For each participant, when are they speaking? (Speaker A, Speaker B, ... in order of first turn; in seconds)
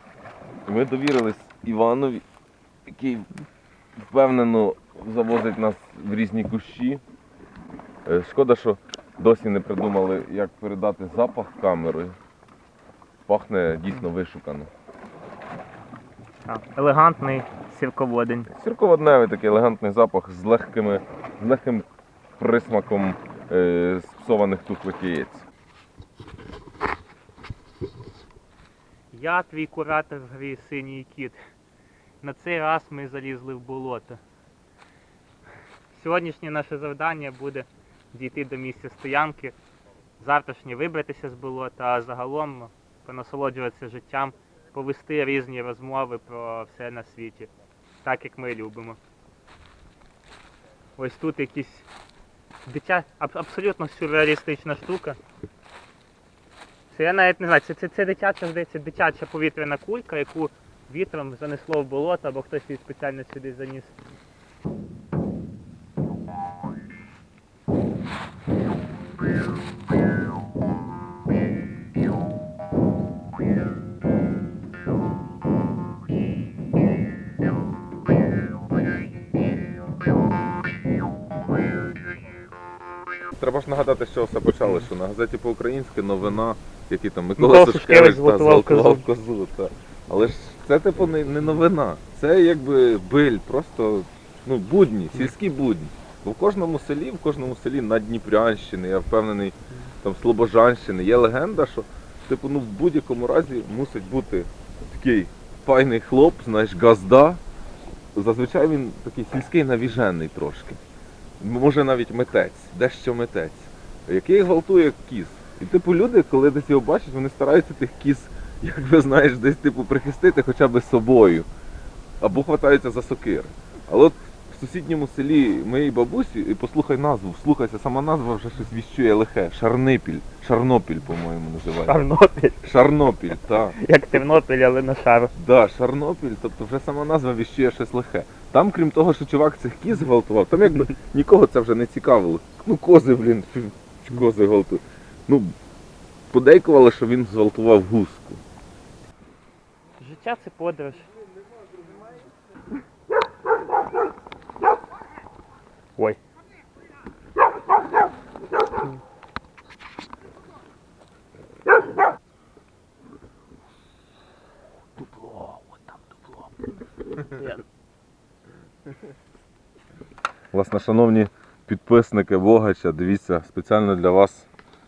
Speaker A: 0.7-2.2, 2.9-3.3, 4.0-7.0, 8.1-12.2, 13.3-14.7, 18.5-21.9, 22.4-25.5, 83.3-107.4, 108.2-110.8, 111.4-121.5, 122.2-132.1, 132.6-133.8, 135.4-145.5, 146.3-148.4, 170.5-174.5
Speaker B: 16.5-18.5, 29.1-31.4, 32.2-34.2, 35.9-39.5, 40.2-47.5, 48.0-49.0, 51.0-51.9, 52.7-55.2, 56.9-63.9, 87.4-89.0, 131.8-135.3, 150.0-151.1, 165.0-166.3, 167.2-167.6